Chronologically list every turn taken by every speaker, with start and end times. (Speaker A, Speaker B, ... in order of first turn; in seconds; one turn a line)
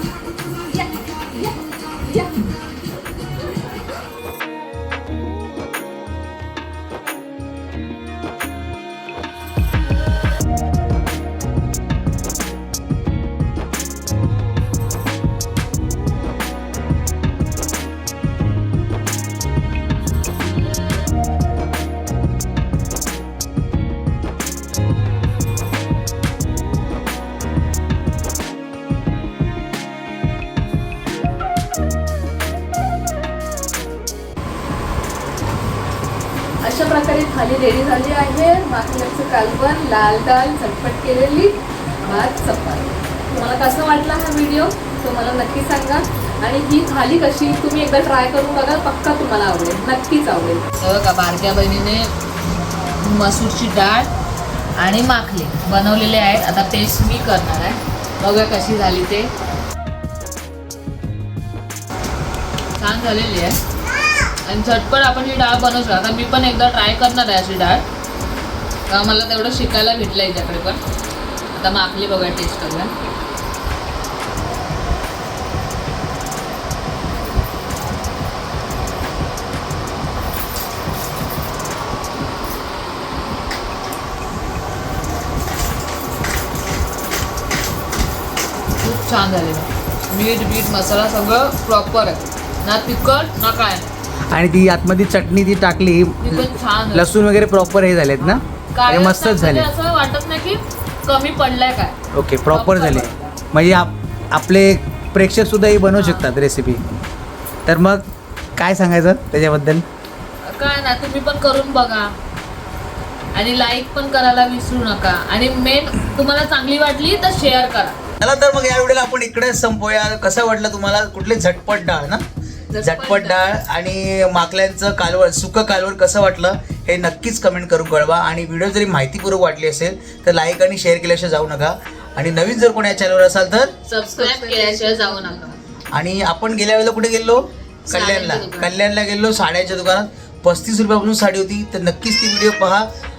Speaker A: 0.7-2.5
Speaker A: 36.6-50.7
Speaker B: 50.8-52.1
Speaker B: 53.0-54.1
Speaker B: 54.8-59.3
Speaker B: 62.8-63.6
Speaker B: 64.5-67.8
Speaker B: 68.9-70.8
Speaker B: 71.5-72.9
Speaker B: 88.8-93.9
Speaker C: 94.3-99.7
Speaker B: 96.2-97.2
Speaker B: 98.2-102.0
Speaker C: 102.1-106.8
Speaker B: 102.5-103.2
Speaker B: 106.0-106.3
Speaker C: 107.7-108.1
Speaker C: 108.6-109.8
Speaker B: 110.4-112.1
Speaker B: 113.3-118.0
Speaker C: 118.2-122.2
Speaker B: 122.7-123.4
Speaker C: 122.8-133.7
Speaker B: 133.9-135.6
Speaker A: 134.2-135.5
Speaker C: 135.9-142.9
Speaker B: 137.9-138.7